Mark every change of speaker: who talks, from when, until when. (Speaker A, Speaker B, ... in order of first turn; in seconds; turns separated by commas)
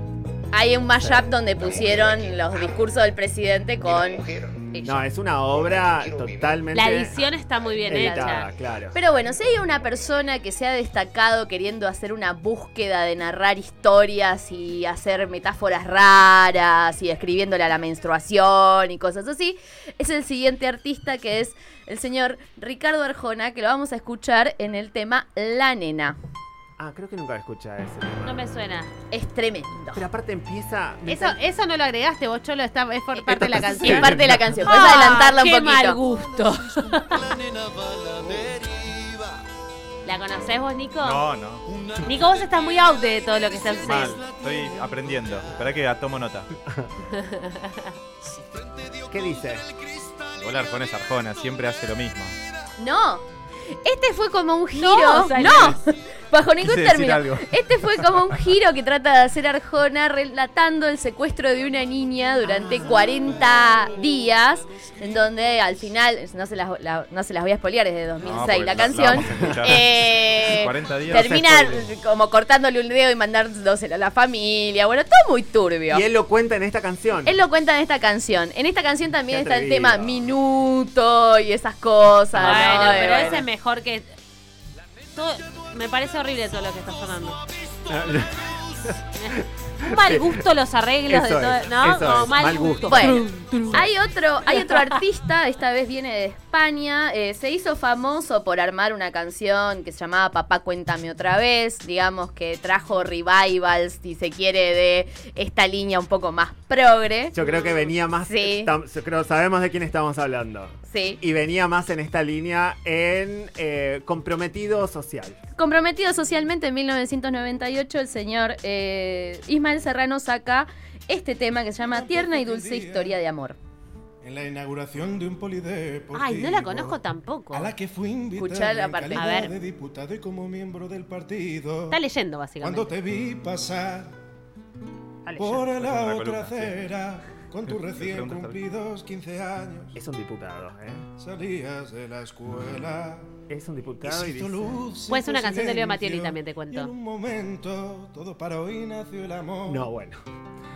Speaker A: 0.5-5.1, Speaker B: 1.0-1.3, Speaker B: 4.8-7.2, Speaker C: 6.7-8.5, Speaker B: 7.9-9.0, Speaker A: 7.9-26.2, Speaker B: 26.8-28.4, Speaker C: 28.2-28.9, Speaker A: 29.1-30.1, Speaker B: 29.9-31.4, Speaker C: 31.1-37.4, Speaker A: 33.2-36.0, Speaker B: 33.6-34.6, Speaker C: 38.2-38.6, Speaker C: 40.0-41.2, Speaker D: 41.0-41.8, Speaker C: 41.9-44.2, Speaker D: 43.9-46.5, Speaker C: 47.2-47.8, Speaker B: 49.1-49.7, Speaker D: 50.2-52.4, Speaker A: 52.8-53.2, Speaker A: 53.8-76.0, Speaker C: 54.8-55.8, Speaker D: 56.6-57.5, Speaker B: 62.5-63.1, Speaker D: 68.2-71.9, Speaker B: 69.3-69.7, Speaker B: 75.9-77.4, Speaker A: 77.2-83.5, Speaker B: 79.3-80.3, Speaker B: 82.4-83.3, Speaker C: 82.4-84.1, Speaker C: 85.2-87.5, Speaker B: 87.9-88.9, Speaker C: 89.2-93.8, Speaker B: 89.8-90.4, Speaker B: 91.1-93.9, Speaker A: 92.9-107.4, Speaker C: 94.5-95.0, Speaker B: 107.3-115.4, Speaker C: 107.4-107.9, Speaker A: 108.3-108.7, Speaker A: 110.9-111.2, Speaker A: 115.6-123.6, Speaker E: 121.8-123.2, Speaker E: 124.2-127.0, Speaker C: 126.1-127.7, Speaker E: 127.5-132.0, Speaker A: 128.4-129.3, Speaker C: 129.1-129.6, Speaker C: 131.9-132.9, Speaker E: 132.6-134.2, Speaker C: 135.2-135.7, Speaker E: 135.3-140.0, Speaker D: 135.6-136.8, Speaker D: 137.7-138.6, Speaker B: 139.9-141.1, Speaker E: 141.2-143.3, Speaker B: 143.5-144.8, Speaker E: 144.0-149.9, Speaker C: 145.1-146.9, Speaker B: 149.7-150.2